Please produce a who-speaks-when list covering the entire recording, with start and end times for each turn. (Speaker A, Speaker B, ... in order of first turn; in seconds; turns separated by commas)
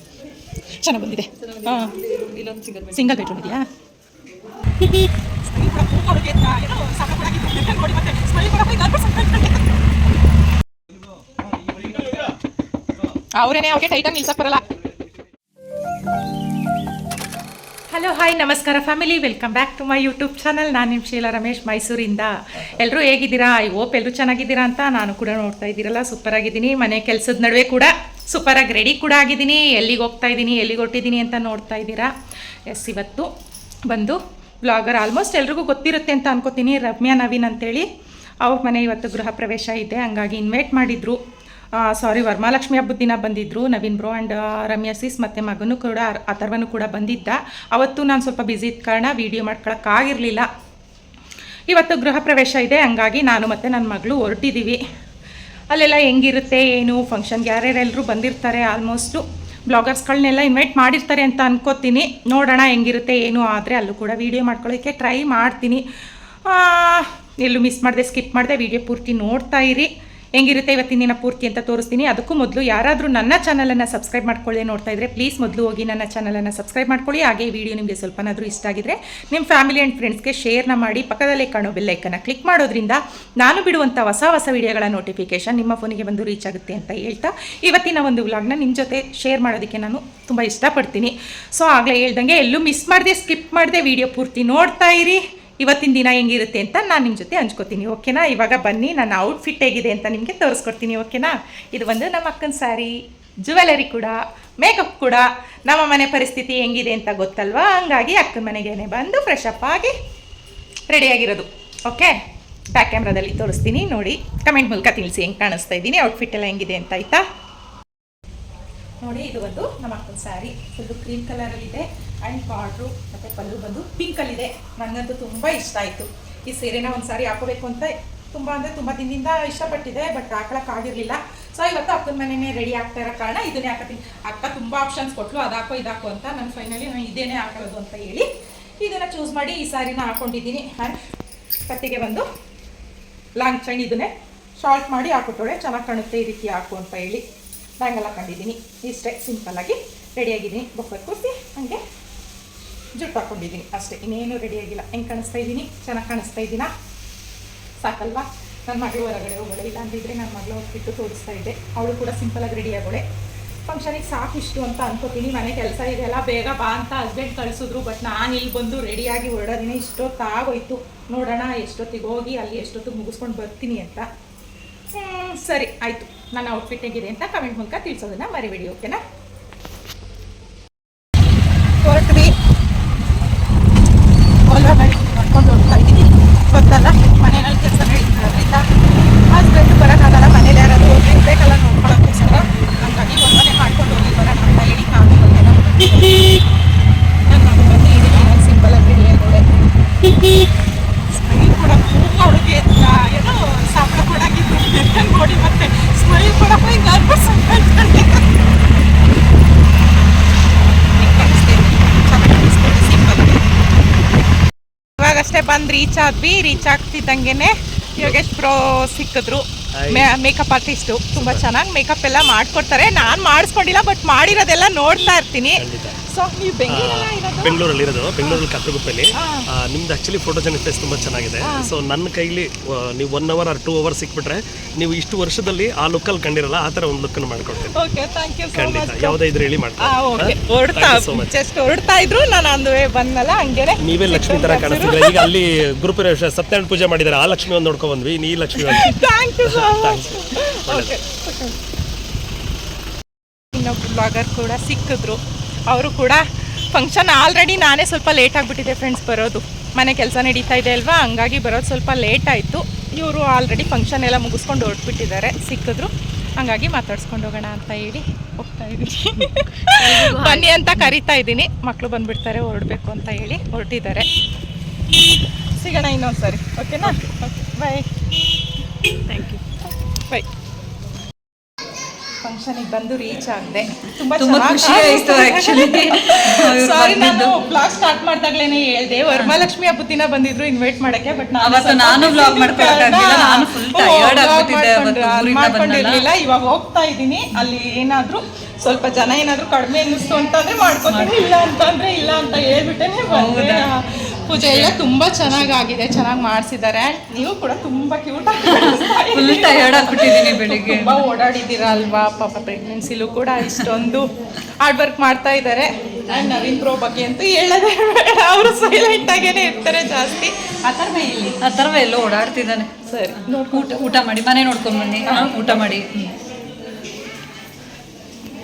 Speaker A: 0.8-1.9, Speaker B: 1.4-3.5, Speaker A: 2.9-3.7, Speaker A: 4.8-9.7, Speaker A: 13.4-14.6, Speaker A: 17.9-32.1, Speaker A: 32.7-33.3, Speaker A: 33.9-37.9, Speaker A: 38.5-41.2, Speaker A: 41.8-50.5, Speaker A: 51.7-54.8, Speaker A: 55.7-65.8, Speaker A: 66.5-109.9, Speaker A: 110.9-112.1, Speaker A: 112.8-117.2, Speaker A: 119.0-138.3, Speaker A: 138.8-141.0, Speaker A: 141.7-142.3, Speaker A: 143.4-147.2, Speaker A: 147.8-151.8, Speaker A: 153.0-156.7, Speaker A: 157.8-163.0, Speaker A: 163.7-174.1, Speaker A: 174.9-179.0, Speaker A: 181.8-182.3, Speaker A: 184.5-188.7, Speaker A: 189.3-196.4, Speaker A: 197.3-199.4, Speaker A: 201.1-208.3, Speaker A: 210.9-213.4, Speaker A: 215.0-227.6, Speaker C: 219.8-220.1, Speaker C: 221.1-221.4, Speaker C: 225.6-226.0, Speaker C: 226.7-237.8, Speaker A: 229.2-229.5, Speaker A: 231.4-231.7, Speaker A: 237.7-239.2, Speaker C: 238.6-241.3, Speaker A: 239.8-245.3, Speaker C: 243.8-250.9, Speaker A: 248.6-251.6, Speaker A: 253.5-274.1, Speaker A: 275.6-277.9, Speaker B: 279.1-279.4, Speaker A: 279.9-280.2, Speaker A: 282.2-314.1, Speaker B: 284.1-287.4, Speaker B: 289.1-289.5, Speaker B: 291.4-296.0, Speaker B: 300.9-301.1, Speaker B: 303.1-303.7, Speaker B: 304.3-304.8, Speaker B: 308.4-311.0, Speaker A: 314.6-321.4, Speaker B: 321.4-325.9, Speaker A: 322.9-323.9, Speaker A: 325.0-325.8